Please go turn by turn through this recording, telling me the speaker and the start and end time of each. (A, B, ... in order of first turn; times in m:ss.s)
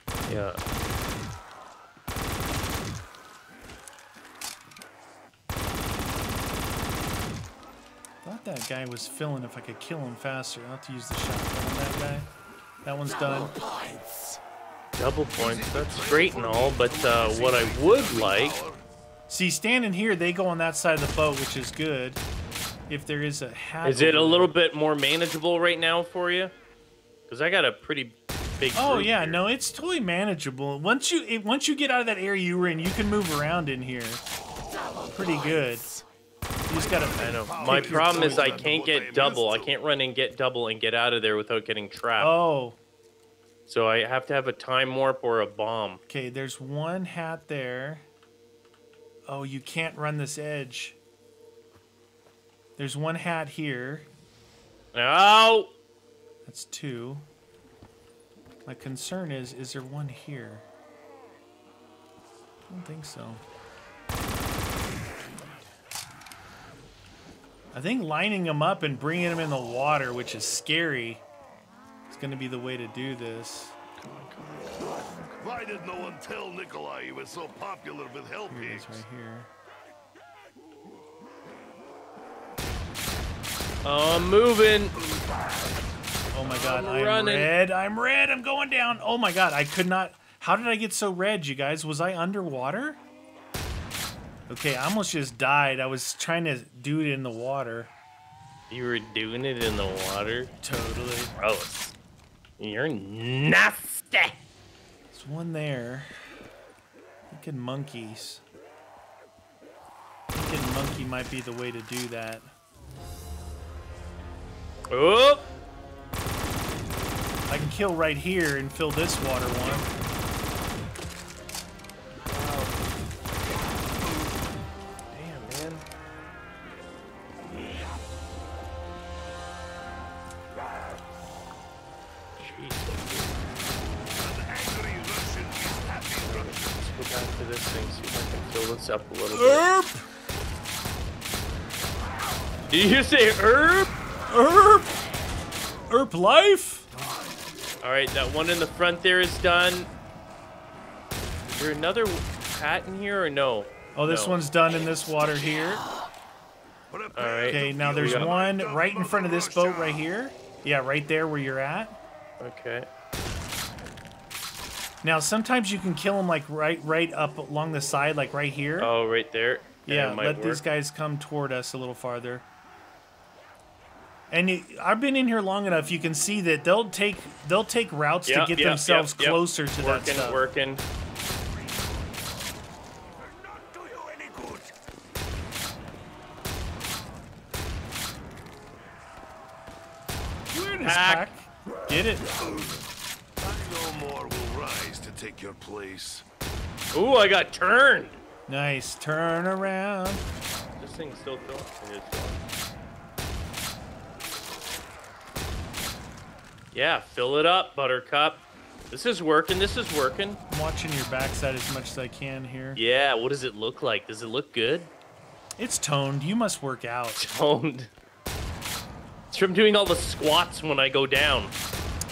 0:00.3-0:00.6 A
0:08.2-0:12.3 B
0:12.8-0:13.6 B
0:15.0-0:18.6 A
0:15.4-0:18.8 C
0:19.3-0:22.2 B
0:22.9-0:24.5 B
0:23.8-0:26.5 A
0:27.3-0:29.4 A
0:28.8-0:34.2 B
0:35.1-0:35.9 B
0:36.7-0:38.7 B
0:36.7-0:39.7 C
0:37.1-0:42.3 A
0:42.2-0:42.8 B
0:43.7-0:46.0 A
0:46.1-0:48.0 B
0:49.3-0:51.0 B
0:52.8-0:54.1 B
0:54.9-0:55.7 A
0:56.5-0:57.2 B
0:58.6-1:00.6 B
1:02.7-1:03.4 B
1:07.7-1:11.2 B
1:12.1-1:13.8 B
1:14.0-1:15.2 A
1:15.4-1:19.0 C
1:18.5-1:19.5 B
1:23.8-1:25.0 A
1:26.3-1:33.0 B
1:26.4-1:27.5 A
1:34.5-1:37.9 B
1:38.7-1:40.6 A
1:40.6-1:41.3 B
1:41.3-1:41.9 A
1:42.6-1:44.4 A
1:45.1-1:46.1 B
1:47.3-1:48.4 B
1:50.3-1:52.5 B
1:54.9-1:55.4 A
1:57.5-1:59.9 B
2:02.2-2:02.7 A
2:05.1-2:05.8 A
2:12.4-2:13.4 A
2:14.1-2:16.9 C
2:16.2-2:19.6 A
2:19.3-2:20.1 B
2:22.7-2:23.9 A
2:24.3-2:24.9 B
2:25.9-2:26.9 B
2:27.8-2:29.9 A
2:31.5-2:34.4 A
2:33.9-2:35.8 B
2:36.9-2:40.0 C
2:37.2-2:38.3 A
2:37.5-2:42.0 B
2:42.4-2:42.9 A
2:45.0-2:48.9 B
2:48.8-2:50.6 A
2:49.9-2:52.4 B
2:54.3-3:00.4 B
2:58.2-3:00.8 A
3:03.3-3:04.7 C
3:10.5-3:12.2 B
3:10.8-3:11.3 A
3:13.4-3:16.2 C
3:16.9-3:18.2 A
3:18.5-3:20.2 B
3:20.8-3:22.4 A
3:26.7-3:30.4 A
3:30.5-3:32.8 B
3:32.8-3:34.9 A
3:35.6-3:37.3 B
3:37.2-3:37.9 A
3:39.3-3:41.5 A